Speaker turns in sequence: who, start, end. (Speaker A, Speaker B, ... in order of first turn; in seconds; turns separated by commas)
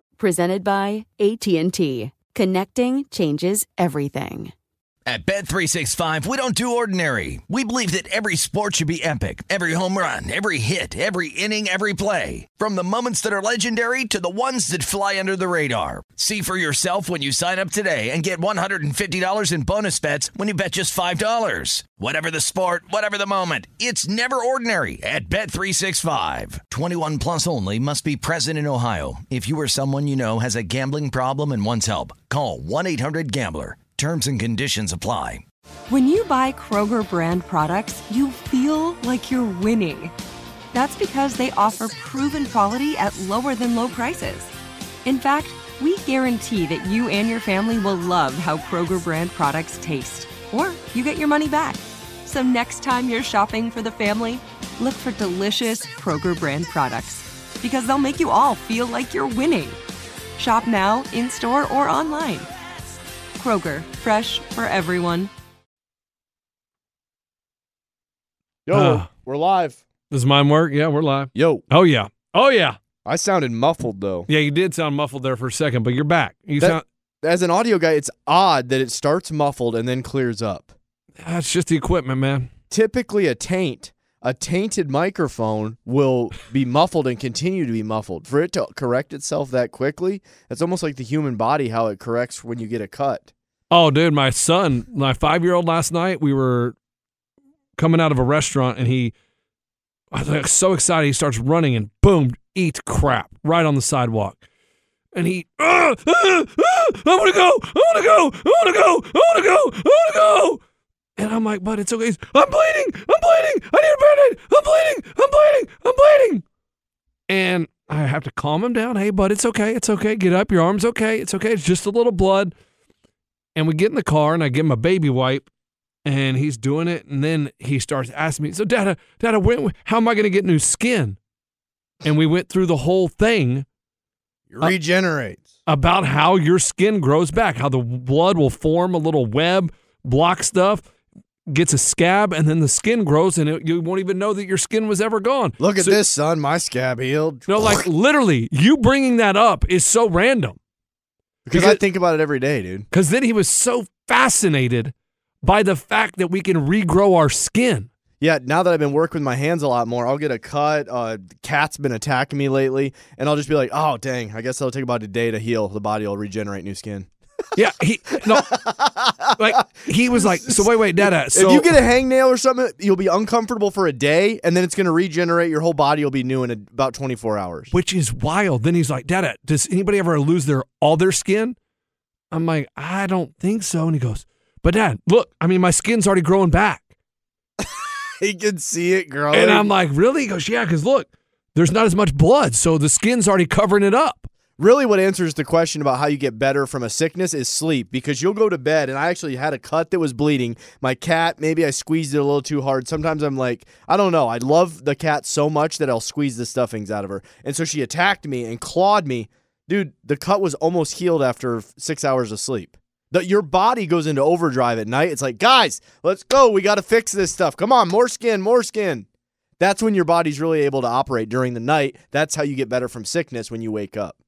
Speaker A: 0.2-4.5, Speaker B: 5.0-35.4, Speaker C: 35.9-40.1, Speaker C: 40.7-44.5, Speaker C: 45.0-59.8, Speaker C: 60.4-62.5, Speaker C: 63.4-65.3, Speaker D: 68.7-69.8, Speaker E: 68.7-69.0, Speaker E: 70.1-72.8, Speaker D: 71.3-71.6, Speaker D: 73.0-74.3, Speaker E: 74.3-76.8, Speaker D: 76.6-80.7, Speaker E: 81.2-82.5, Speaker D: 82.7-93.3, Speaker E: 93.7-96.7, Speaker E: 97.8-99.1, Speaker E: 100.1-104.4, Speaker E: 105.1-110.6, Speaker E: 111.2-116.4, Speaker E: 117.3-122.5, Speaker E: 123.5-125.5, Speaker E: 126.0-131.2, Speaker E: 132.0-133.6, Speaker D: 134.5-135.4, Speaker E: 135.7-140.8, Speaker E: 141.5-146.0, Speaker D: 145.6-147.8, Speaker E: 147.5-150.6, Speaker D: 151.4-152.9, Speaker E: 151.5-151.8, Speaker E: 152.9-157.9, Speaker D: 158.2-167.1, Speaker E: 167.6-168.6, Speaker D: 168.5-177.7, Speaker E: 169.4-171.7, Speaker E: 177.7-181.6, Speaker E: 182.3-186.8, Speaker D: 187.6-189.7, Speaker E: 189.3-194.3, Speaker D: 194.6-219.1, Speaker D: 219.6-224.2